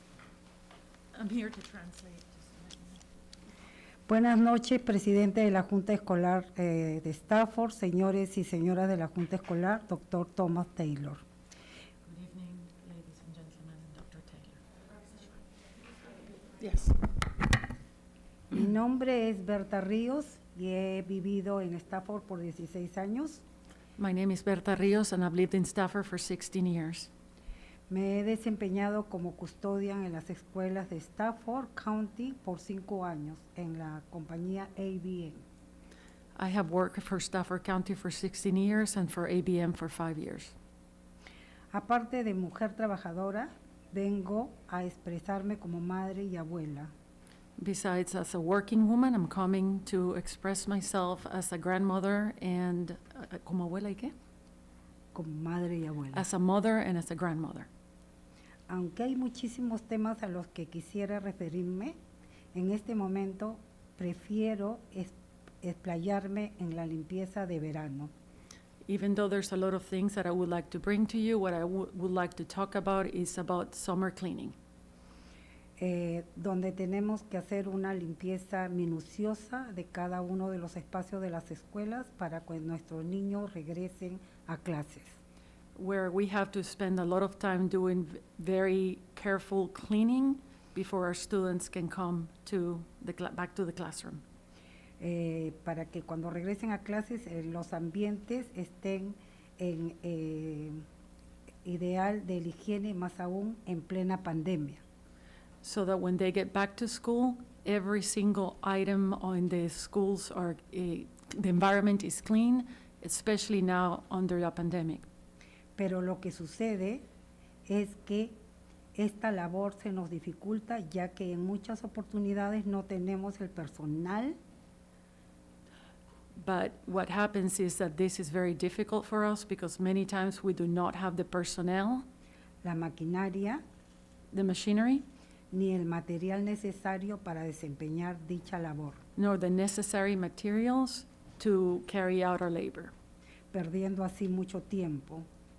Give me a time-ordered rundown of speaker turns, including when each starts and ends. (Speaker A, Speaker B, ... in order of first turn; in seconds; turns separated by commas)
Speaker A: 1.1-3.0, Speaker B: 4.1-11.2, Speaker A: 12.1-14.6, Speaker A: 16.6-17.0, Speaker B: 18.5-23.4, Speaker A: 24.0-27.1, Speaker B: 27.9-35.4, Speaker A: 36.4-40.5, Speaker B: 41.7-46.9, Speaker A: 47.6-54.1, Speaker B: 55.1-56.3, Speaker A: 56.1-57.7, Speaker B: 58.7-62.0, Speaker B: 62.5-68.1, Speaker A: 68.9-74.5, Speaker B: 75.8-85.1, Speaker A: 85.8-94.2, Speaker B: 95.0-100.8, Speaker B: 101.7-104.8, Speaker A: 105.6-115.1, Speaker B: 115.8-117.0, Speaker B: 117.7-118.4, Speaker B: 119.0-124.4, Speaker A: 126.4-132.1, Speaker B: 132.6-133.6, Speaker A: 134.3-135.1, Speaker B: 135.5-139.0, Speaker A: 139.2-142.9, Speaker B: 143.5-145.3